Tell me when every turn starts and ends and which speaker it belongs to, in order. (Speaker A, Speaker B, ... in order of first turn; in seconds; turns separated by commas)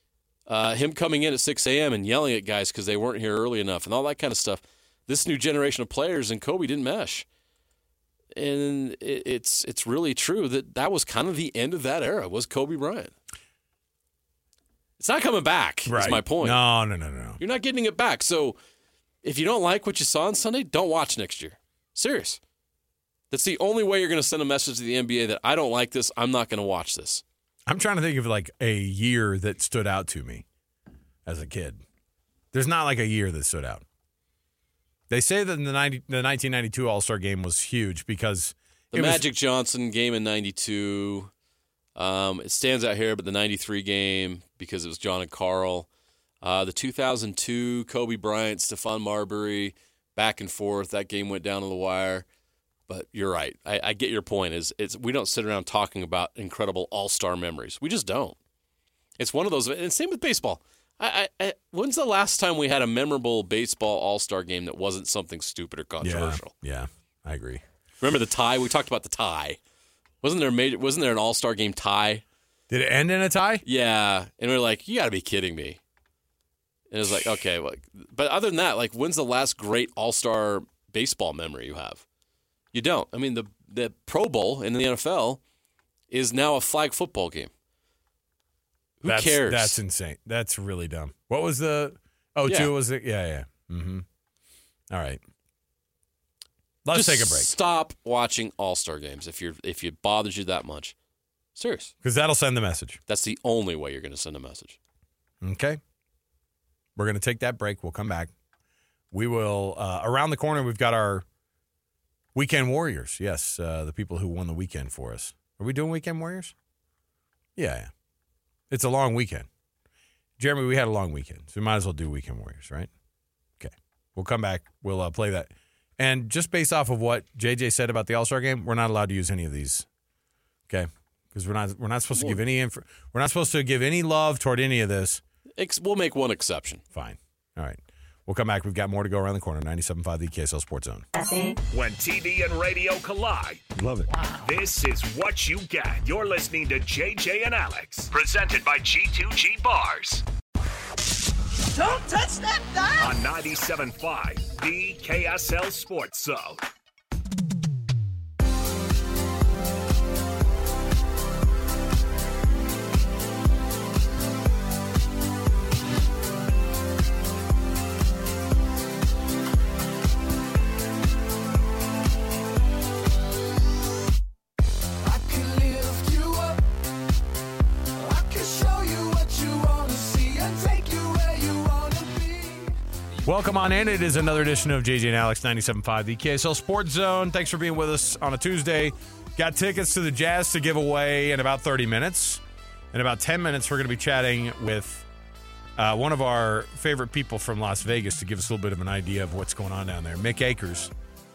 Speaker A: 0.5-7.2, Speaker A: 8.3-13.1, Speaker A: 15.0-16.6, Speaker B: 15.8-17.4, Speaker A: 17.4-18.6, Speaker A: 19.2-22.4, Speaker A: 23.3-27.2, Speaker B: 27.7-30.4, Speaker B: 31.2-31.8, Speaker B: 32.5-33.8, Speaker B: 35.1-39.2, Speaker A: 38.9-41.3, Speaker A: 42.0-45.9, Speaker A: 46.4-52.2, Speaker A: 52.9-58.4, Speaker A: 59.2-66.5, Speaker B: 66.0-67.6, Speaker A: 68.0-69.6, Speaker A: 70.2-72.2, Speaker B: 72.7-73.6, Speaker A: 73.6-75.8, Speaker A: 76.9-82.0, Speaker A: 82.7-85.4, Speaker A: 86.1-87.5, Speaker A: 89.0-89.8, Speaker B: 89.0-94.0, Speaker A: 92.5-92.7, Speaker B: 94.9-95.2, Speaker B: 96.8-97.5, Speaker A: 96.9-100.9, Speaker A: 101.5-101.9, Speaker B: 102.0-103.0, Speaker A: 103.1-104.8, Speaker B: 105.4-105.8, Speaker B: 107.0-108.3, Speaker B: 109.1-111.2, Speaker B: 112.3-116.5, Speaker B: 117.5-117.9, Speaker B: 118.7-119.5, Speaker B: 120.4-122.9, Speaker B: 123.6-129.8, Speaker B: 130.7-135.2, Speaker A: 132.1-132.4, Speaker A: 135.6-136.8, Speaker B: 136.9-141.1, Speaker C: 141.7-143.6, Speaker B: 143.8-144.1, Speaker D: 144.2-144.4, Speaker C: 144.4-150.2, Speaker D: 151.8-153.2, Speaker C: 153.0-156.6, Speaker D: 175.0-176.7, Speaker D: 178.0-182.8, Speaker B: 183.2-195.1, Speaker B: 195.8-200.9